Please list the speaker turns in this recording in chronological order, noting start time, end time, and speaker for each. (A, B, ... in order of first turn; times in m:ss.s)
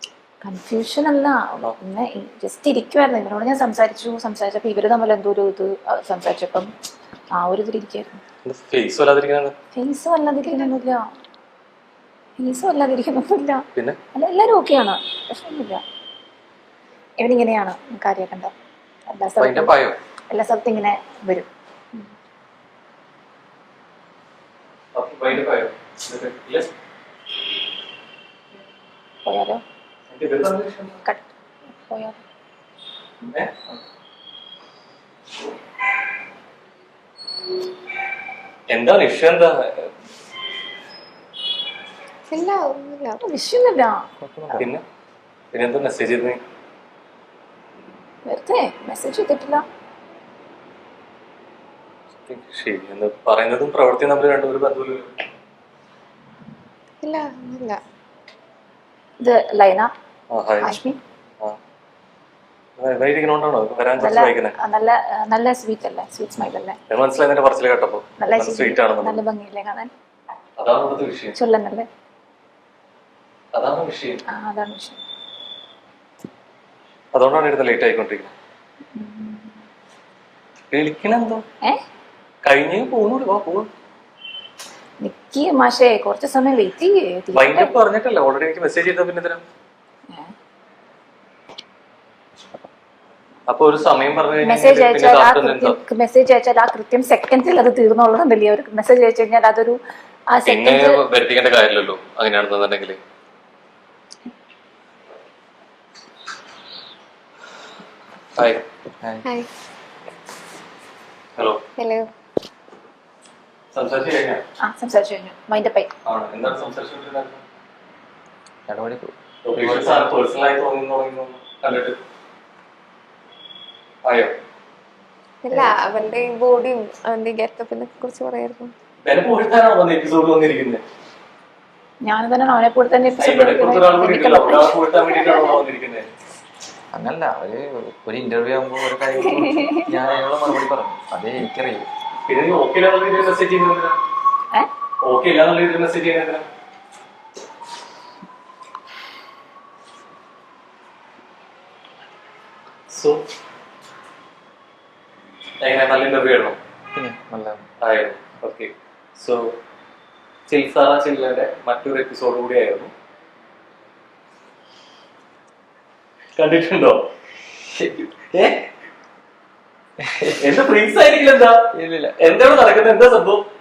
0:00.4-0:06.7 A
0:07.3-0:08.2 A
0:08.4-0:09.5 B
0:09.7-0:11.1 A
0:12.4-0:15.8 A
0:17.2-0:18.5 A
0:19.1-0:19.7 A
0:19.4-0:20.0 B
0:20.3-0:22.1 A
0:24.9-0:26.7 B
0:29.2-0:29.6 A
0:30.1-0:31.0 B
0:31.0-0:32.2 A
0:38.7-0:39.9 B
0:42.3-0:43.2 C
0:43.2-0:44.0 A
0:44.2-0:44.7 D
0:44.5-0:44.8 B
0:45.5-0:46.4 B
0:48.2-0:49.6 A
0:52.2-0:55.1 B
0:57.0-0:57.8 C
0:59.2-0:59.9 A
1:00.3-1:00.8 B
1:00.6-1:01.0 A
1:02.8-1:04.6 B
1:04.0-1:06.8 A
1:06.9-1:09.2 B
1:08.2-1:09.9 A
1:10.6-1:11.4 B
1:11.3-1:11.9 A
1:13.5-1:14.2 B
1:14.3-1:15.0 A
1:17.1-1:18.3 B
1:18.9-1:19.6 A
1:20.7-1:21.4 B
1:22.4-1:23.7 B
1:25.0-1:27.7 A
1:27.3-1:29.4 B
1:33.5-1:35.8 B
1:34.4-1:41.0 A
1:40.4-1:43.0 B
1:48.4-1:48.6 B
1:49.0-1:49.4 D
1:51.8-1:52.0 C
1:53.7-1:54.4 B
1:54.6-1:55.9 A
1:56.0-1:57.4 B
1:58.7-2:00.0 D
1:59.4-2:02.0 B
2:04.0-2:04.3 B
2:05.4-2:08.7 C
2:09.0-2:10.8 B
2:12.0-2:15.6 A
2:13.2-2:16.1 B
2:16.9-2:21.9 D
2:19.3-2:19.9 A
2:22.2-2:24.0 B
2:25.0-2:26.5 B
2:32.9-2:33.2 B
2:35.6-2:36.6 B
2:36.9-2:37.7 D
2:37.8-2:39.6 B
2:40.5-2:42.9 B
2:46.4-2:47.0 B
2:48.2-2:48.6 B
2:50.0-2:50.6 D
2:50.4-2:51.6 B
2:51.7-2:52.8 D
2:52.2-2:53.4 B